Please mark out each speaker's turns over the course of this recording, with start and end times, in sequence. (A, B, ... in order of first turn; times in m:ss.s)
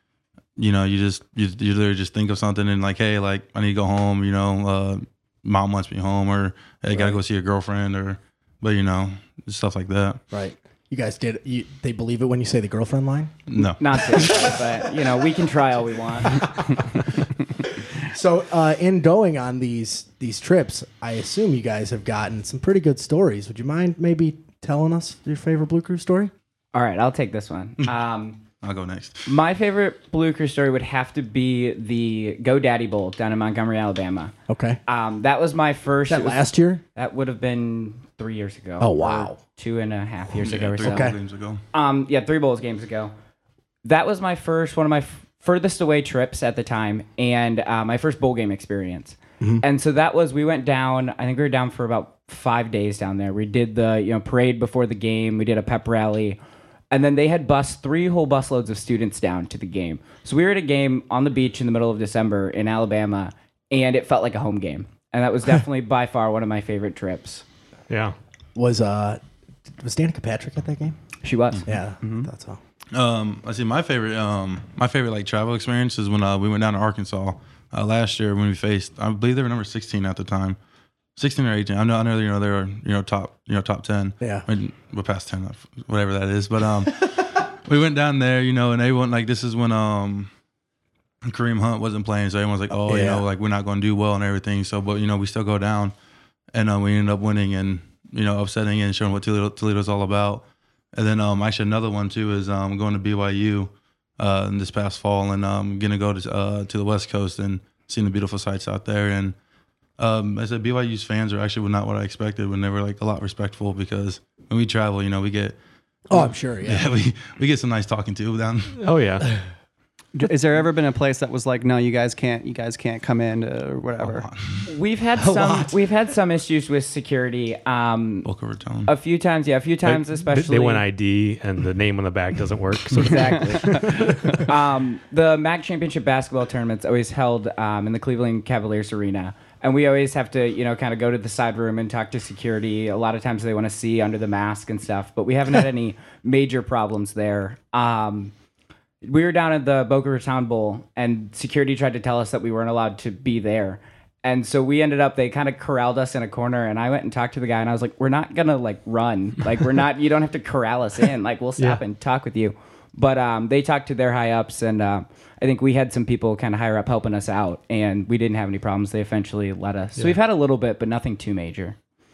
0:00.6-0:10.2 A
0:06.9-0:07.2 B
0:10.3-0:13.4 B
0:13.5-0:14.3 A
0:13.8-0:16.5 C
0:14.0-0:14.8 B
0:17.6-0:26.3 B
0:26.7-0:28.4 C
0:28.6-0:29.3 A
0:29.2-0:34.3 C
0:34.5-0:34.8 B
0:34.9-0:41.1 C
0:36.1-0:36.8 B
0:38.8-0:39.4 B
0:40.4-0:41.6 A
0:40.8-0:41.2 B
0:41.7-0:43.1 C
0:43.8-0:56.4 C
0:56.9-1:07.4 C
1:07.9-1:08.2 D
1:08.5-1:09.2 B
1:09.7-1:11.0 B
1:11.2-1:11.7 C
1:11.7-1:12.6 B
1:12.9-1:20.6 A
1:21.2-1:30.3 A
1:24.2-1:24.5 B
1:31.2-1:35.9 A
1:32.7-1:33.2 B
1:36.5-1:49.3 A
1:50.0-1:55.6 A
1:56.1-1:56.9 B
1:56.1-1:58.8 A
1:58.8-1:59.3 D
2:00.1-2:04.2 E
2:04.0-2:04.7 A
2:04.6-2:08.3 C
2:05.2-2:05.8 B
2:08.2-2:08.9 A
2:08.8-2:10.8 C
2:09.8-2:14.3 D
2:13.0-2:28.3 C
2:29.0-2:51.8 C